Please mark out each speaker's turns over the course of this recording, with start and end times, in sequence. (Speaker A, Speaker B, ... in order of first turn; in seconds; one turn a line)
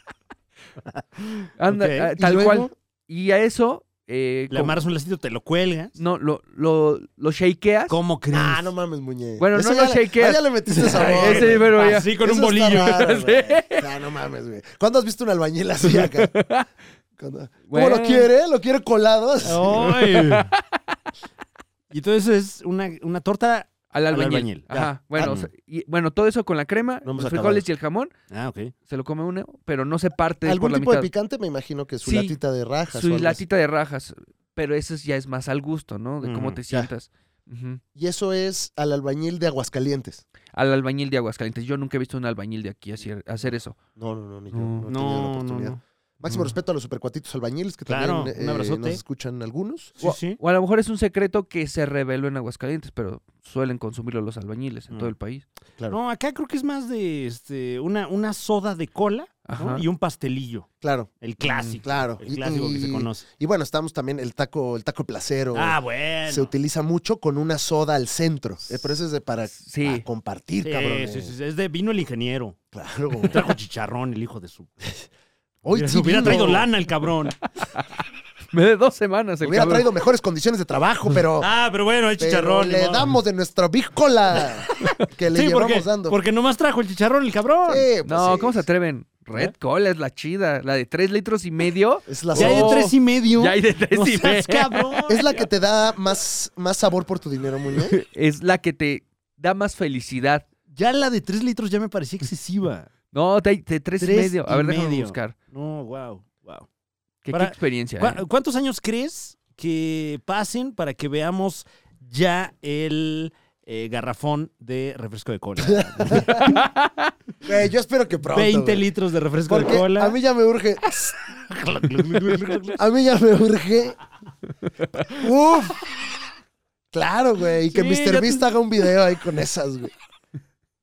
Speaker A: 0.9-2.1
Speaker B: 1.6-4.8
Speaker C: 2.2-2.7
Speaker A: 4.5-5.9
Speaker B: 6.0-7.9
Speaker A: 7.9-8.7
Speaker C: 8.3-16.3
Speaker B: 9.4-12.1
Speaker A: 10.7-13.0
Speaker B: 12.7-13.9
Speaker B: 15.9-16.6
Speaker C: 17.2-20.0
Speaker B: 17.7-18.3
Speaker A: 19.4-20.5
Speaker B: 20.1-20.6
Speaker A: 21.9-25.5
Speaker B: 23.9-28.1
Speaker C: 27.0-27.7
Speaker A: 28.3-28.7
Speaker B: 28.9-31.1
Speaker C: 30.4-33.4
Speaker B: 32.0-32.4
Speaker B: 32.9-37.8
Speaker A: 36.2-36.6
Speaker C: 37.9-40.2
Speaker B: 40.5-43.8
Speaker C: 44.0-50.1
Speaker B: 44.5-44.8
Speaker A: 44.9-45.8
Speaker A: 47.9-49.0
Speaker A: 50.0-50.4
Speaker B: 50.4-55.4
Speaker A: 55.9-60.7
Speaker B: 59.5-59.8
Speaker C: 60.8-61.1
Speaker A: 61.2-63.2
Speaker B: 61.5-61.8
Speaker C: 61.8-71.3
Speaker A: 65.5-66.5
Speaker B: 69.6-70.0
Speaker A: 70.6-72.6
Speaker C: 72.7-73.5
Speaker A: 73.2-74.7
Speaker C: 75.6-76.7
Speaker A: 75.7-77.3
Speaker B: 78.5-79.9
Speaker C: 79.4-81.5
Speaker A: 81.4-83.1
Speaker C: 82.2-86.2
Speaker A: 85.3-87.8
Speaker C: 87.7-88.6
Speaker B: 88.0-95.1
Speaker C: 92.1-92.9
Speaker A: 92.3-95.2
Speaker C: 95.1-98.0
Speaker B: 97.8-100.4
Speaker A: 100.7-102.9
Speaker B: 103.1-105.3
Speaker A: 104.0-106.7
Speaker B: 107.2-108.2
Speaker A: 107.3-116.6
Speaker C: 115.6-116.5
Speaker B: 116.4-117.1
Speaker C: 117.4-118.9
Speaker A: 118.3-120.2
Speaker C: 119.5-121.2
Speaker A: 121.5-122.8
Speaker C: 122.8-124.0
Speaker C: 125.1-125.8
Speaker C: 126.9-129.9
Speaker A: 127.7-128.4